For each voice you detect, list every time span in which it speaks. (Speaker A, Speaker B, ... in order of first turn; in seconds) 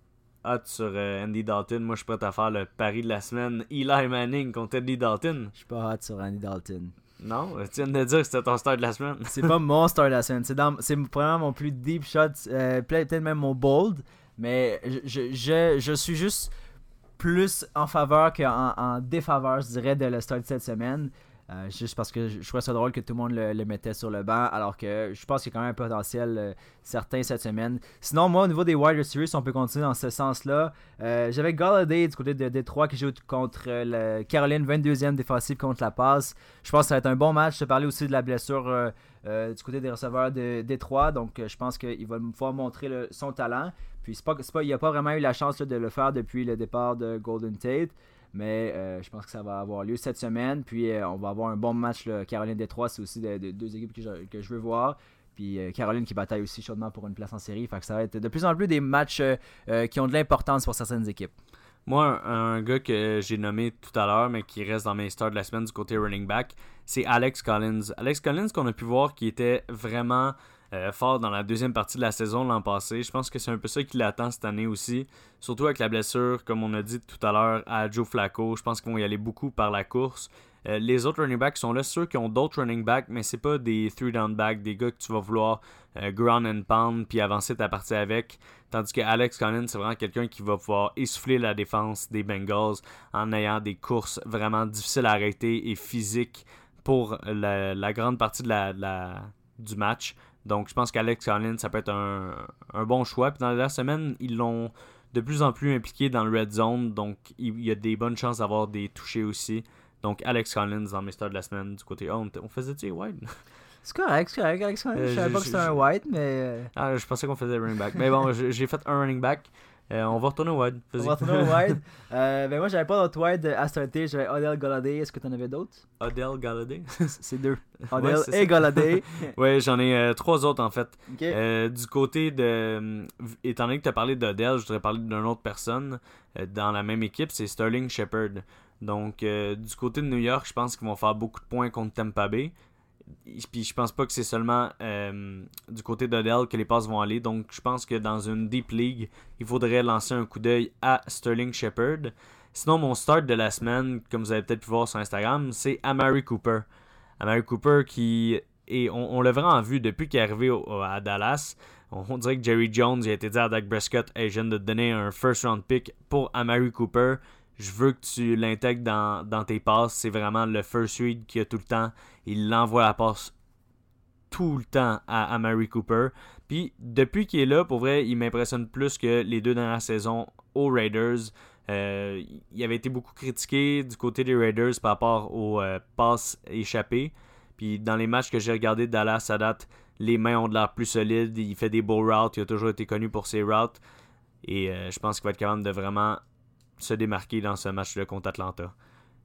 Speaker A: 0.4-5.5, 7.2-9.5, 61.9-113.3, 115.0-115.7, 116.7-121.7, 126.0-127.2, 127.9-142.5, 143.2-156.7, 157.2-173.3, 174.3-193.8, 194.4-196.2, 196.8-198.7
Speaker B: 5.5-6.9, 9.3-16.5, 17.2-61.3, 113.8-116.7, 121.0-125.8, 127.2-129.3, 131.1-131.4